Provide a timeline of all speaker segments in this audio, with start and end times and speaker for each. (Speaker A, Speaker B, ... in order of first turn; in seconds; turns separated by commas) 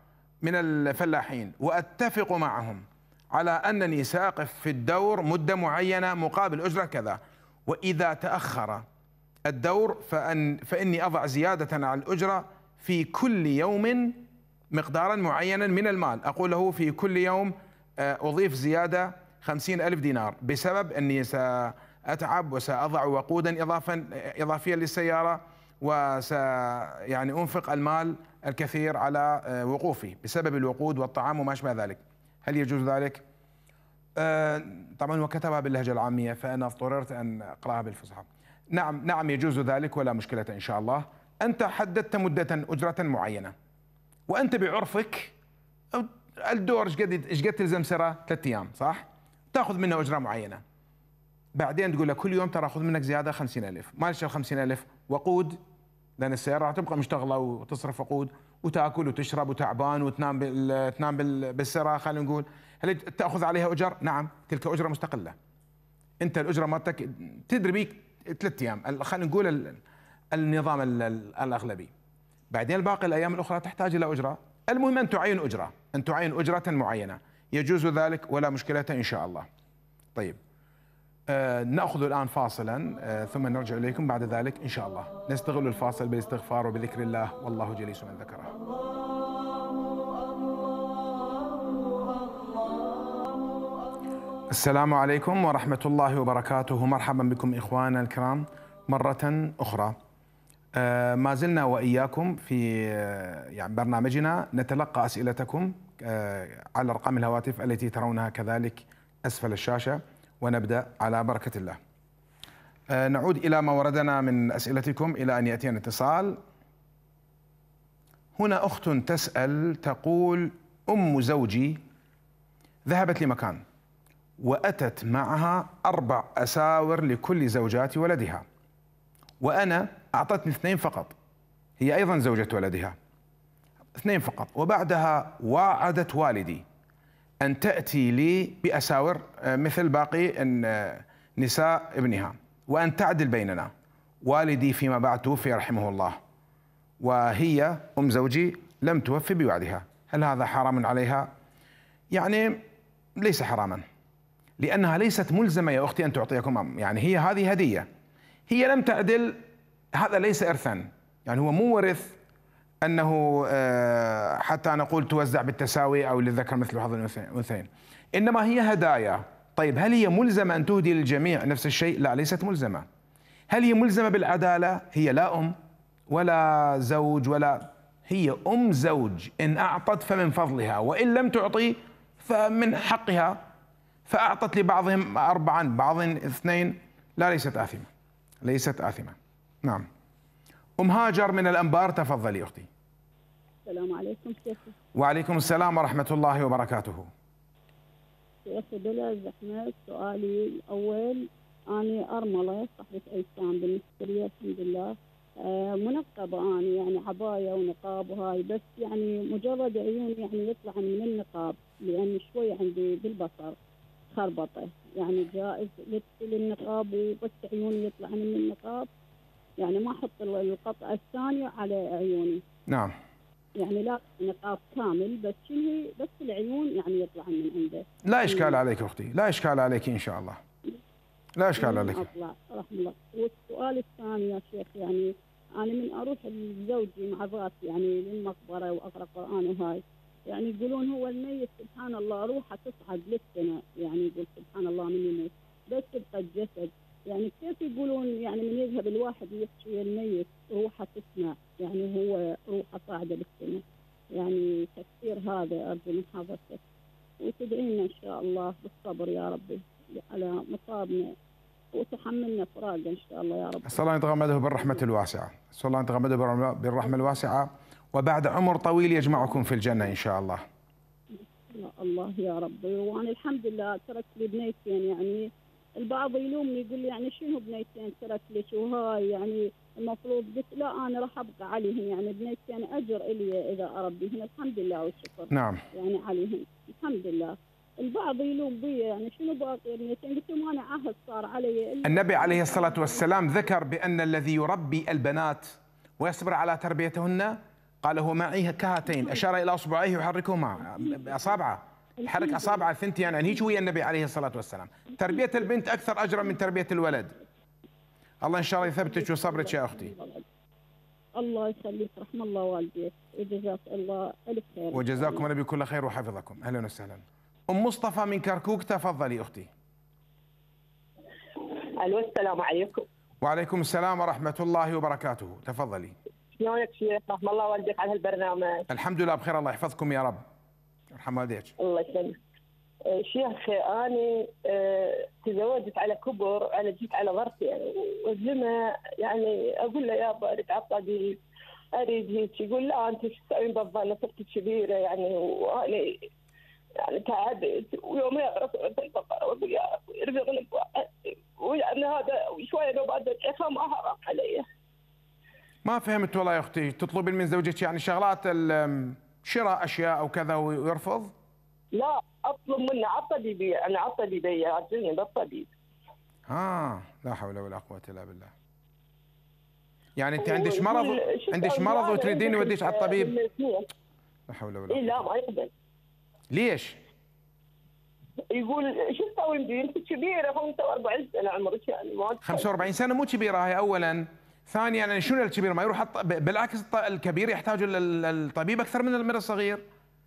Speaker A: 0.4-8.8, Speaker A: 9.5-33.2, Speaker A: 34.2-43.5, Speaker A: 44.3-45.3, Speaker A: 45.9-50.6, Speaker A: 51.5-55.6, Speaker A: 56.2-65.3, Speaker A: 66.2-69.8, Speaker A: 70.3-71.9, Speaker A: 72.5-79.5, Speaker A: 81.3-88.5, Speaker A: 94.5-100.0, Speaker A: 100.8-111.8, Speaker A: 112.9-116.4, Speaker A: 118.4-121.8, Speaker A: 122.8-123.6, Speaker A: 124.4-128.4, Speaker A: 129.4-131.1, Speaker A: 131.8-132.9, Speaker A: 134.0-136.6, Speaker A: 137.4-143.7, Speaker A: 144.2-146.2, Speaker A: 147.0-151.3, Speaker A: 152.1-152.6, Speaker A: 153.2-153.8, Speaker A: 154.6-157.9, Speaker A: 158.5-159.4, Speaker A: 159.9-162.2, Speaker A: 162.8-172.8, Speaker A: 173.5-175.5, Speaker A: 176.1-183.4, Speaker A: 184.1-187.9, Speaker A: 188.4-189.8, Speaker A: 190.8-192.7, Speaker B: 193.7-194.7, Speaker A: 194.9-197.1, Speaker B: 198.4-213.5, Speaker B: 214.1-218.9, Speaker B: 219.6-222.4, Speaker A: 222.7-222.9, Speaker B: 223.6-228.6, Speaker A: 228.0-230.4, Speaker A: 231.4-232.1, Speaker B: 231.6-253.6, Speaker B: 254.1-256.6, Speaker B: 257.2-261.1, Speaker B: 261.7-263.8, Speaker A: 263.6-270.4, Speaker B: 271.1-275.2, Speaker B: 275.8-293.1, Speaker A: 285.3-285.6, Speaker A: 291.8-307.2, Speaker B: 302.0-302.6, Speaker A: 308.2-309.9, Speaker B: 308.6-310.2, Speaker B: 311.1-315.2, Speaker A: 314.7-319.5, Speaker C: 321.6-322.8, Speaker A: 323.2-325.9, Speaker C: 326.4-328.6, Speaker A: 328.7-330.2, Speaker A: 330.9-331.5, Speaker C: 331.6-332.2, Speaker C: 332.9-341.2, Speaker C: 341.8-346.0, Speaker C: 346.8-354.4, Speaker A: 355.6-361.1, Speaker C: 361.7-365.5, Speaker A: 366.3-368.3, Speaker A: 370.0-373.1, Speaker C: 370.2-373.6, Speaker A: 374.3-375.1, Speaker C: 374.7-375.5, Speaker A: 376.3-376.8, Speaker C: 378.3-382.6, Speaker A: 382.2-389.6